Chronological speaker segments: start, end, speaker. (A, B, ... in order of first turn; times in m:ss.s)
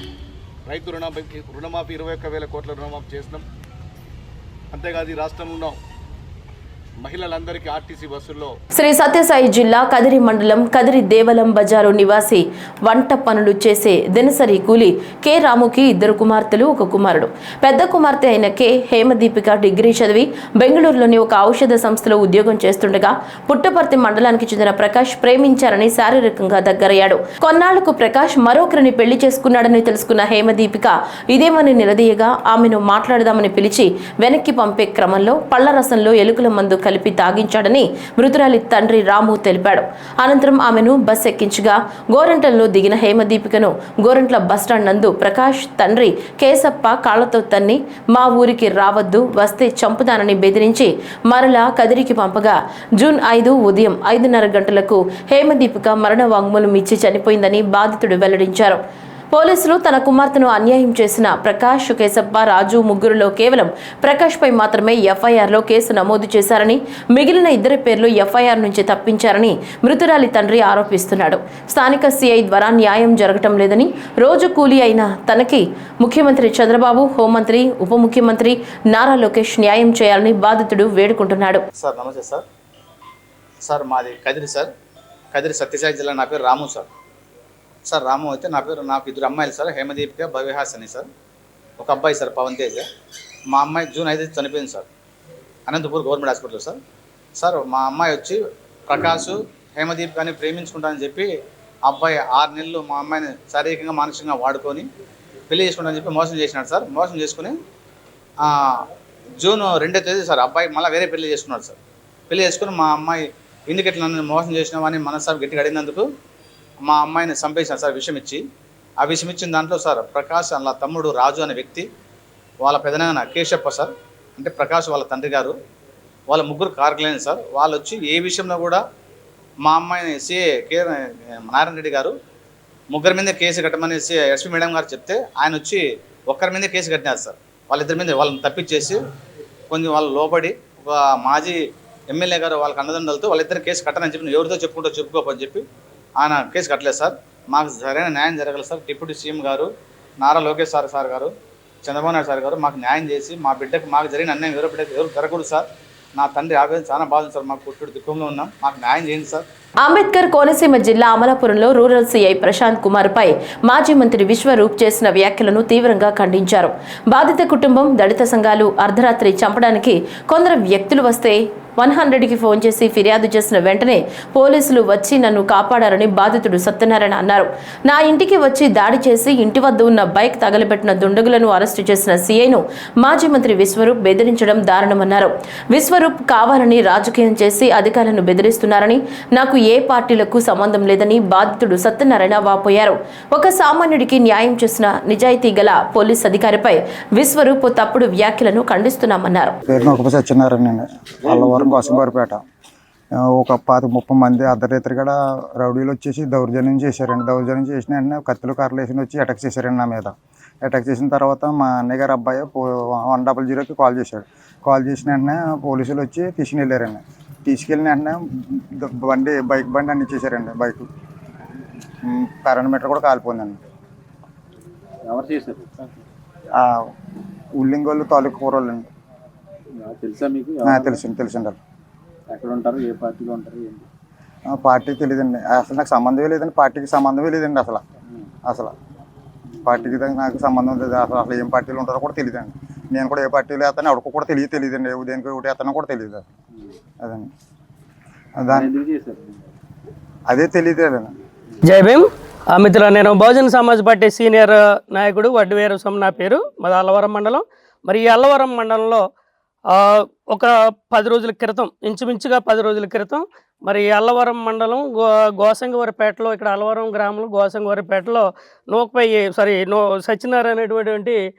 0:00.7-0:03.4 A
0:04.7-0:05.8 A
0:07.0-0:08.5 A
0:08.7-0:58.8 B
0:59.3-1:21.6 B
1:21.8-1:22.4 C
1:23.6-1:24.7 C
1:25.3-1:26.9 C
1:27.9-1:31.1 C
1:31.8-1:32.8 C
1:33.5-1:34.9 C
1:35.7-1:36.8 C
1:37.4-1:41.3 C
1:41.8-1:44.9 C
1:45.5-1:47.5 C
1:48.4-1:48.9 C
1:49.4-1:51.8 C
1:52.3-1:56.1 C
1:56.8-1:58.4 C
1:59.0-2:01.8 C
2:02.6-2:05.5 C
2:06.3-2:08.8 C
2:09.6-2:12.1 C
2:12.9-2:19.0 C
2:19.7-2:25.6 C
2:26.2-2:29.7 C
2:30.2-2:31.3 C
2:31.8-2:39.4 C
2:39.8-3:19.6 B
3:19.7-3:22.4 D
3:21.3-3:22.0 E
3:23.4-3:40.8 D
3:42.0-3:43.6 D
3:45.1-3:46.0 E
3:46.6-3:46.8 D
3:47.6-3:48.8 D
3:49.8-3:51.0 E
3:50.6-3:51.6 D
3:52.3-3:53.8 E
3:54.5-3:57.8 D
3:58.5-3:58.7 D
3:59.6-4:06.2 D
4:07.0-4:07.3 D
4:08.4-4:08.7 D
4:08.5-4:09.4 E
4:10.3-4:11.1 D
4:11.6-4:19.0 F
4:19.7-4:31.2 F